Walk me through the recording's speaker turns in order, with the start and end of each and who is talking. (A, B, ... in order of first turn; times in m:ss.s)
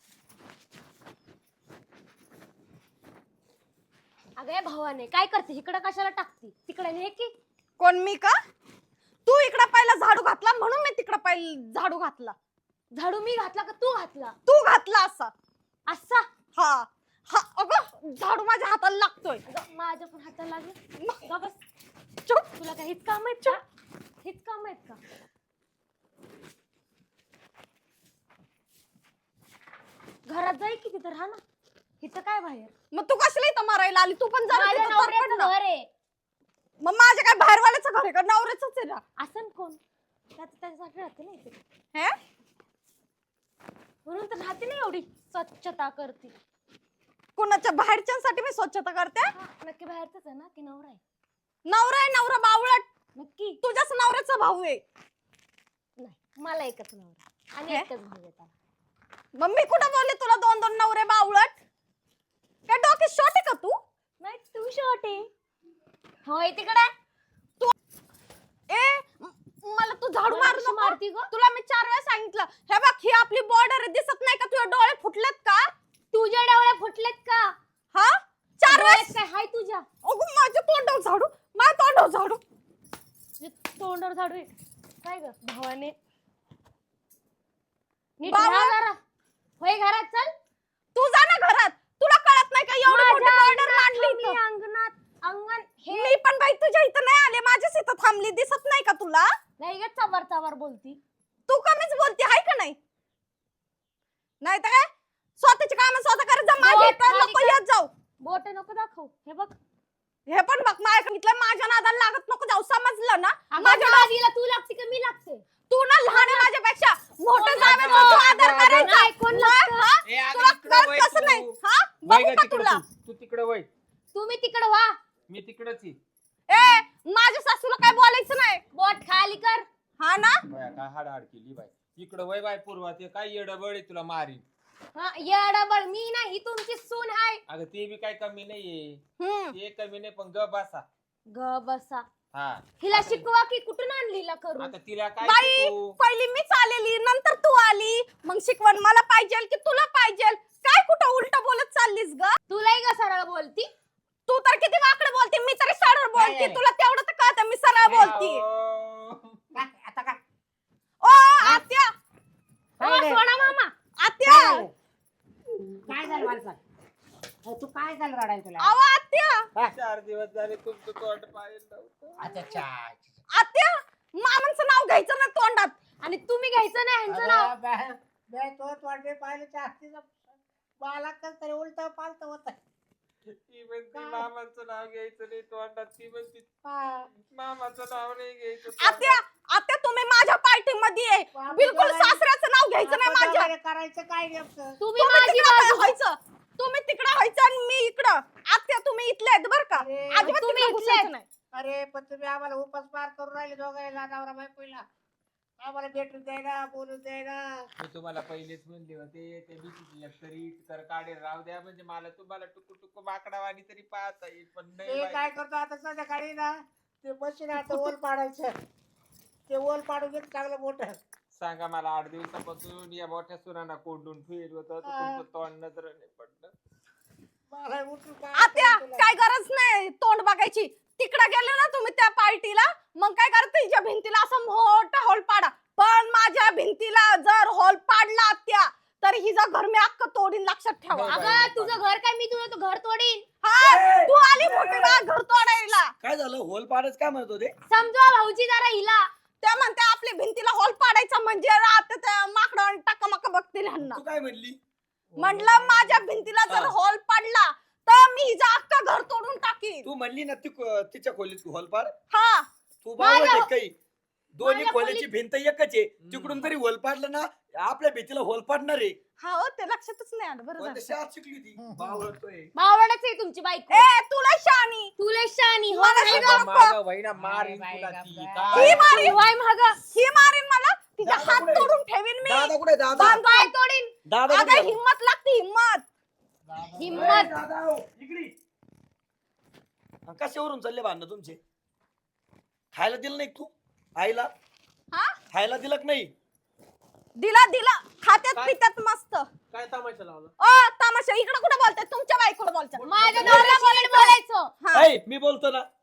0:04.4-0:07.3 A
0:07.8-0:08.4 B
0:09.3-0:12.4 B
0:13.0-0:14.4 A
0:14.5-0:15.3 B
0:15.9-0:16.2 A
0:16.6-0:19.4 B
0:19.5-0:21.6 A
0:21.0-0:21.2 B
0:22.3-0:22.6 B
0:22.6-0:23.6 A
0:24.2-0:25.0 A
0:30.3-0:31.4 A
0:32.0-0:32.7 A
0:32.9-0:35.5 B
0:34.5-0:35.9 A
0:36.8-0:39.0 B
0:39.2-0:39.8 A
0:40.4-0:41.6 A
0:44.1-0:46.4 A
0:47.4-0:49.3 B
0:49.3-0:51.0 A
0:51.7-0:52.9 B
0:53.2-0:53.6 A
0:53.6-0:54.8 B
0:56.0-0:58.5 A
0:59.4-1:01.6 B
1:02.7-1:03.8 B
1:04.2-1:05.3 A
1:06.2-1:06.9 A
1:08.7-1:15.7 B
1:10.3-1:11.3 A
1:16.1-1:17.5 A
1:17.9-1:19.1 B
1:18.6-1:19.9 A
1:20.0-1:22.4 B
1:23.4-1:24.5 A
1:25.0-1:26.0 A
1:28.2-1:29.0 A
1:28.3-1:28.8 B
1:29.6-1:30.3 A
1:31.0-1:34.4 B
1:32.8-1:36.2 A
1:35.9-1:39.3 B
1:39.6-1:41.0 A
1:41.5-1:42.8 B
1:44.4-1:47.9 B
1:46.6-1:47.6 A
1:48.2-1:49.6 A
1:50.3-1:54.1 B
1:53.5-1:55.5 A
1:55.7-2:02.8 B
1:56.1-1:56.5 A
1:57.3-1:59.8 A
1:57.6-1:59.0 C
2:00.0-2:03.7 C
2:04.1-2:04.9 A
2:05.3-2:06.0 C
2:06.5-2:08.6 B
2:08.7-2:09.7 A
2:10.0-2:10.4 B
2:10.5-2:14.4 C
2:15.0-2:17.4 A
2:17.5-2:19.0 C
2:19.2-2:19.6 B
2:19.5-2:20.8 C
2:21.3-2:22.1 A
2:22.3-2:23.3 C
2:22.8-2:24.8 A
2:24.6-2:26.0 C
2:25.2-2:32.3 B
2:32.5-2:33.7 A
2:34.3-2:38.4 B
2:36.2-2:36.6 D
2:37.9-2:38.2 D
2:38.0-2:39.4 C
2:39.6-2:40.2 D
2:41.0-2:41.9 B
2:42.8-2:43.3 D
2:42.8-2:43.7 A
2:44.0-2:44.6 B
2:44.3-2:44.7 D
2:45.7-2:46.6 D
2:47.4-2:48.7 D
2:48.6-2:49.5 B
2:49.7-2:52.4 C
2:52.2-2:53.2 D
2:53.3-2:55.8 B
2:56.0-2:57.5 A
2:57.1-3:02.6 D
3:03.4-3:06.5 C
3:03.9-3:04.3 D
3:06.6-3:07.1 D
3:07.3-3:09.2 C
3:08.8-3:13.5 B
3:11.3-3:12.2 D
3:12.8-3:14.8 D
3:14.8-3:16.0 A
3:15.0-3:21.3 B
3:19.8-3:20.3 D
3:20.2-3:21.1 A
3:21.5-3:24.8 D
3:25.6-3:27.7 D
3:27.8-3:35.3 C
3:34.8-3:38.5 D
3:39.5-3:41.0 D
3:41.3-3:46.5 C
3:44.8-3:45.2 D
3:47.5-3:49.1 D
3:48.4-4:01.2 B
4:00.9-4:01.8 C
4:01.1-4:03.3 A
4:03.4-4:05.9 B
4:03.6-4:05.0 E
4:06.0-4:07.5 E
4:07.7-4:09.1 A
4:09.4-4:14.0 B
4:13.8-4:14.6 E
4:15.1-4:16.3 F
4:15.2-4:19.9 B
4:16.5-4:16.8 E
4:19.8-4:21.9 E
4:22.1-4:22.5 B
4:22.8-4:23.7 E
4:23.0-4:23.5 A
4:24.4-4:29.0 E
4:24.4-4:25.1 B
4:26.0-4:26.5 C
4:29.2-4:30.9 B
4:30.6-4:32.5 E
4:31.6-4:32.1 D
4:32.6-4:33.9 A
4:33.7-4:34.9 B
4:35.0-4:36.5 A
4:35.7-4:36.8 B
4:36.0-4:39.1 C
4:37.2-4:38.8 D
4:38.5-4:39.2 B
4:38.6-4:39.8 A
4:39.9-4:43.5 B
4:41.0-4:43.2 E
4:42.9-4:43.9 A
4:44.1-4:44.8 E
4:44.3-4:45.8 B
4:46.5-4:47.3 D
4:46.8-4:47.3 A
4:46.9-4:48.3 E
4:50.1-4:51.4 E
4:52.7-4:54.3 E
4:55.3-4:56.1 E
4:57.2-4:59.3 B
4:59.5-5:00.3 F
5:00.4-5:04.9 B
5:02.7-5:03.5 F
5:02.8-5:04.5 A
5:04.7-5:05.7 E